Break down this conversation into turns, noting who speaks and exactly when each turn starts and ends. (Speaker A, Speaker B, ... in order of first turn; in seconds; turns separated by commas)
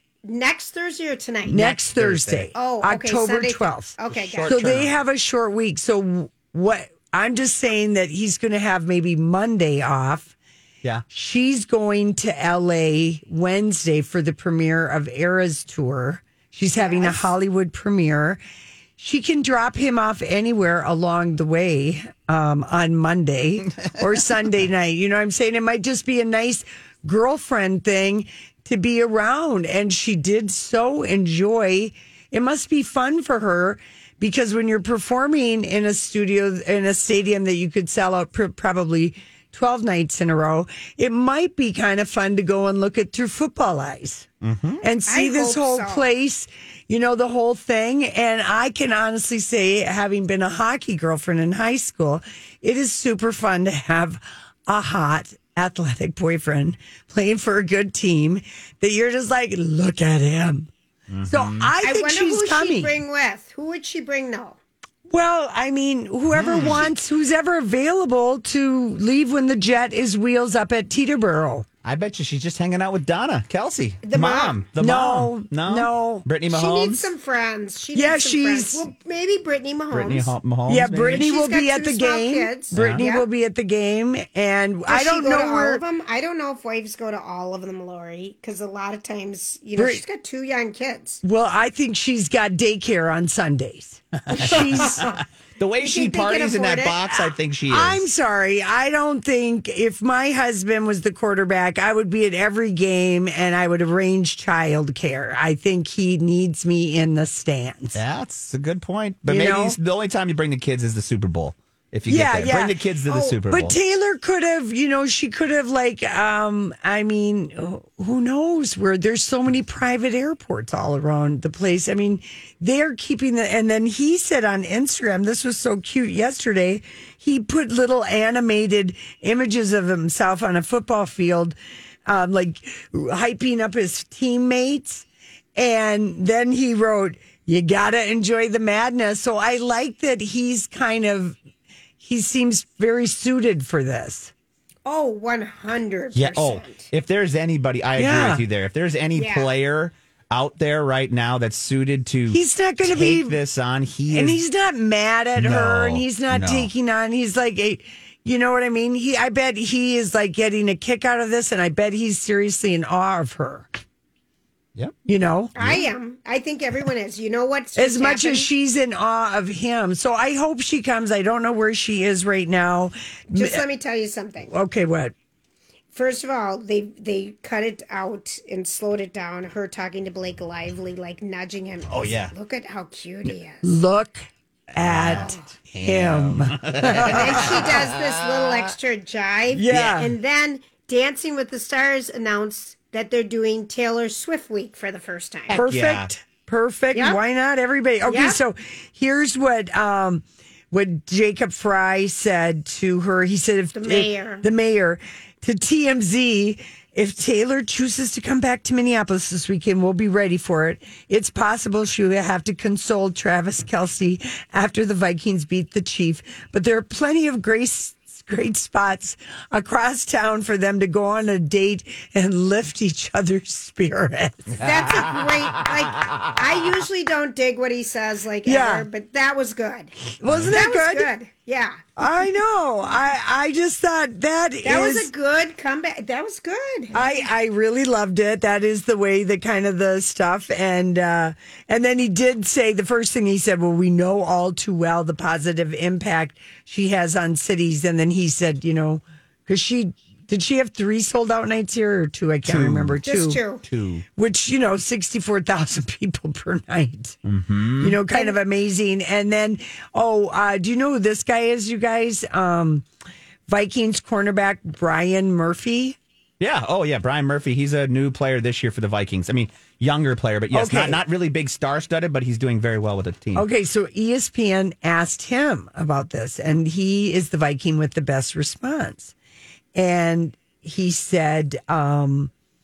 Speaker A: 0.2-1.7, Speaker B: 1.5-10.3, Speaker C: 1.8-2.5, Speaker A: 2.5-4.6, Speaker C: 4.1-4.9, Speaker B: 11.1-18.4, Speaker A: 16.8-17.3, Speaker B: 19.0-44.3, Speaker C: 44.4-44.8, Speaker B: 44.8-60.7, Speaker A: 45.0-46.1, Speaker C: 61.1-61.7, Speaker B: 61.2-63.0, Speaker A: 61.8-64.6, Speaker B: 65.1-71.7, Speaker C: 66.3-66.8, Speaker C: 71.8-77.1, Speaker A: 74.0-74.5, Speaker B: 74.8-76.2, Speaker A: 76.5-80.3, Speaker B: 77.9-78.8, Speaker C: 79.9-81.2, Speaker B: 80.7-85.8, Speaker A: 81.1-83.3, Speaker C: 82.7-83.0, Speaker A: 84.9-91.2, Speaker B: 89.8-90.0, Speaker B: 91.2-95.1, Speaker C: 94.2-98.0, Speaker A: 94.3-95.2, Speaker A: 95.8-97.2, Speaker B: 97.7-108.0, Speaker C: 107.9-113.8, Speaker B: 109.3-109.8, Speaker B: 112.1-112.7, Speaker A: 113.1-113.3, Speaker B: 113.5-141.4, Speaker B: 142.0-144.3, Speaker A: 144.8-146.9, Speaker C: 146.1-154.4, Speaker B: 148.0-148.4, Speaker A: 149.2-149.5, Speaker B: 152.3-153.4, Speaker B: 154.1-163.7, Speaker C: 155.3-156.7, Speaker B: 165.1-165.5, Speaker A: 165.5-168.5, Speaker C: 165.6-165.8, Speaker B: 167.7-173.6, Speaker A: 173.3-174.5, Speaker B: 174.4-175.1, Speaker A: 175.9-183.7, Speaker C: 181.9-182.3, Speaker B: 183.6-187.6, Speaker C: 184.8-188.6, Speaker A: 185.1-185.4, Speaker A: 187.0-195.6, Speaker B: 189.5-190.1, Speaker B: 195.5-224.7, Speaker C: 195.6-196.1, Speaker A: 198.1-198.4, Speaker A: 203.7-204.4, Speaker A: 224.6-229.9, Speaker C: 224.7-224.9, Speaker B: 228.4-228.9, Speaker B: 230.2-231.1, Speaker C: 230.3-230.5, Speaker A: 230.5-231.8, Speaker B: 232.0-235.1, Speaker A: 234.6-237.1, Speaker B: 236.9-253.4, Speaker C: 252.4-253.0, Speaker A: 253.0-253.6, Speaker C: 253.6-254.0, Speaker B: 254.2-257.2, Speaker C: 257.2-258.0, Speaker B: 257.8-262.9, Speaker B: 263.5-266.0, Speaker C: 266.4-273.4, Speaker B: 270.5-271.0, Speaker B: 273.4-279.1, Speaker B: 279.7-282.3